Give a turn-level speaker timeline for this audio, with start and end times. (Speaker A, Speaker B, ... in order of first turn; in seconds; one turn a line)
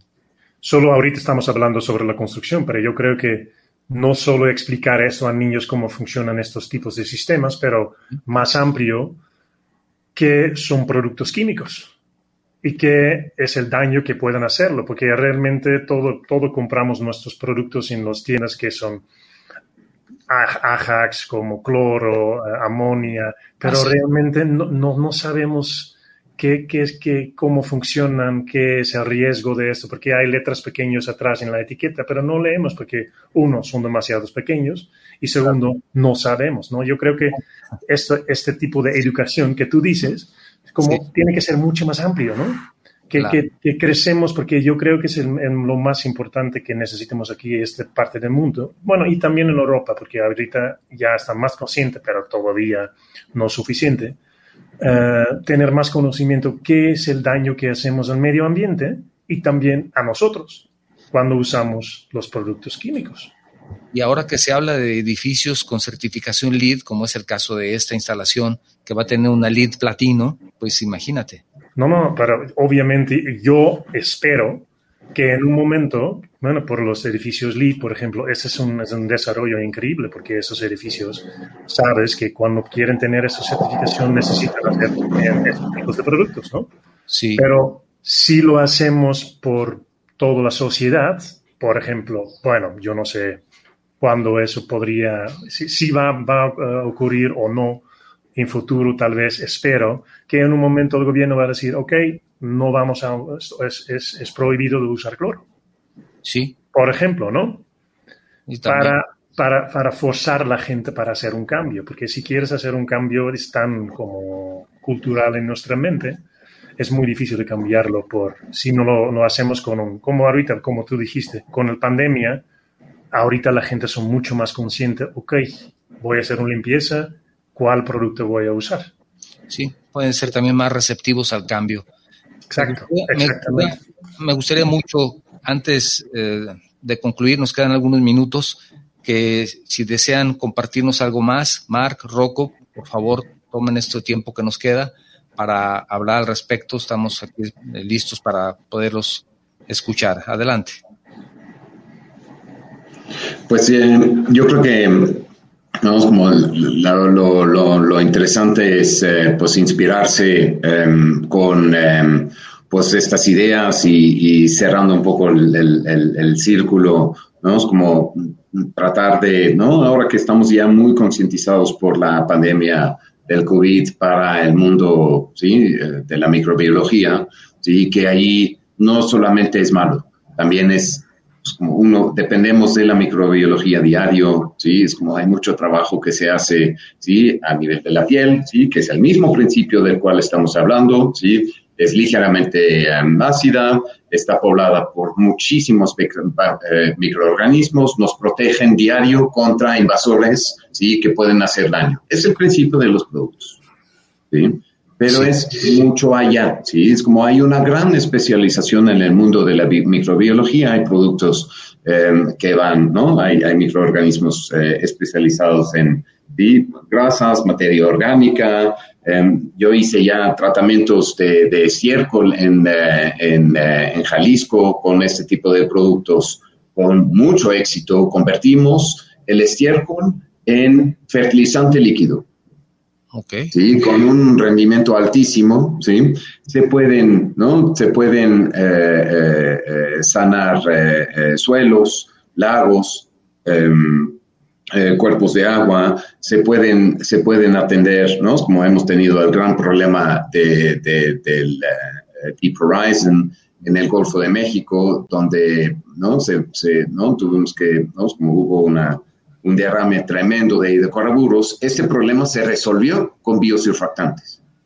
Speaker A: 0.6-9.2
Speaker A: 10.1-11.9
Speaker A: 12.6-19.0
Speaker A: 20.3-54.2
Speaker B: 23.6-24.0
Speaker A: 54.8-63.3
Speaker B: 63.9-71.4
Speaker A: 71.8-86.7
Speaker B: 87.1-87.4
Speaker A: 87.4-93.4
Speaker A: 94.0-105.4
Speaker B: 106.2-106.5
Speaker A: 106.7-107.6
Speaker B: 108.5-108.9
Speaker A: 108.7-116.2
Speaker A: 116.8-122.4
Speaker A: 123.1-128.9
Speaker B: 129.5-131.8
Speaker A: 132.5-133.8
Speaker B: 132.6-150.8
Speaker C: 153.5-155.3
Speaker C: 155.8-203.6
Speaker C: 204.3-232.3
Speaker B: 233.1-233.5
Speaker C: 233.5-244.2
Speaker C: 244.7-264.4